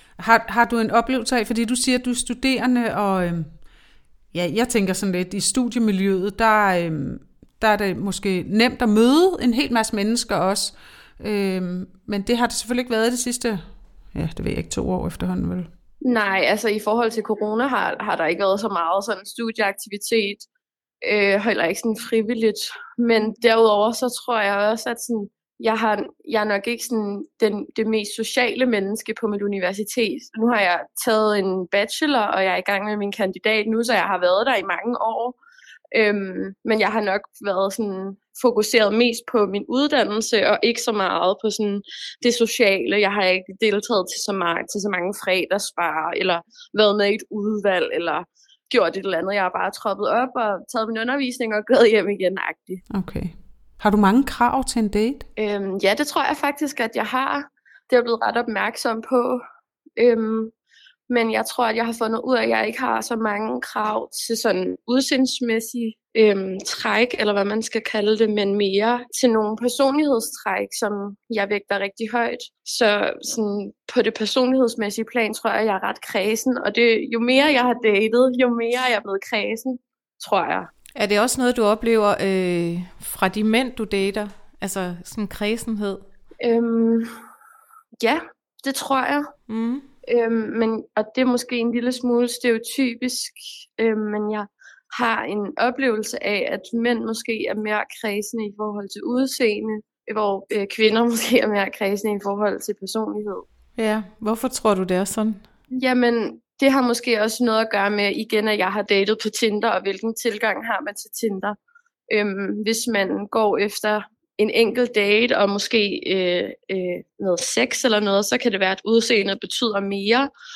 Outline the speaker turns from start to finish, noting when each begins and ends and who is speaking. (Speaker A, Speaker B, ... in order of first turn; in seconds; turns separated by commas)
Speaker A: 0.2-3.5, Speaker A: 4.3-13.6, Speaker A: 14.1-15.7, Speaker B: 16.0-20.5, Speaker B: 21.0-35.4, Speaker B: 35.9-52.8, Speaker A: 52.9-55.2, Speaker B: 55.4-59.4, Speaker B: 60.0-60.5, Speaker B: 61.1-80.7, Speaker C: 80.9-86.0, Speaker B: 86.4-87.1, Speaker B: 88.0-89.3, Speaker C: 89.5-89.8, Speaker B: 90.0-103.4, Speaker C: 103.8-105.4, Speaker B: 105.7-111.6, Speaker B: 112.1-120.3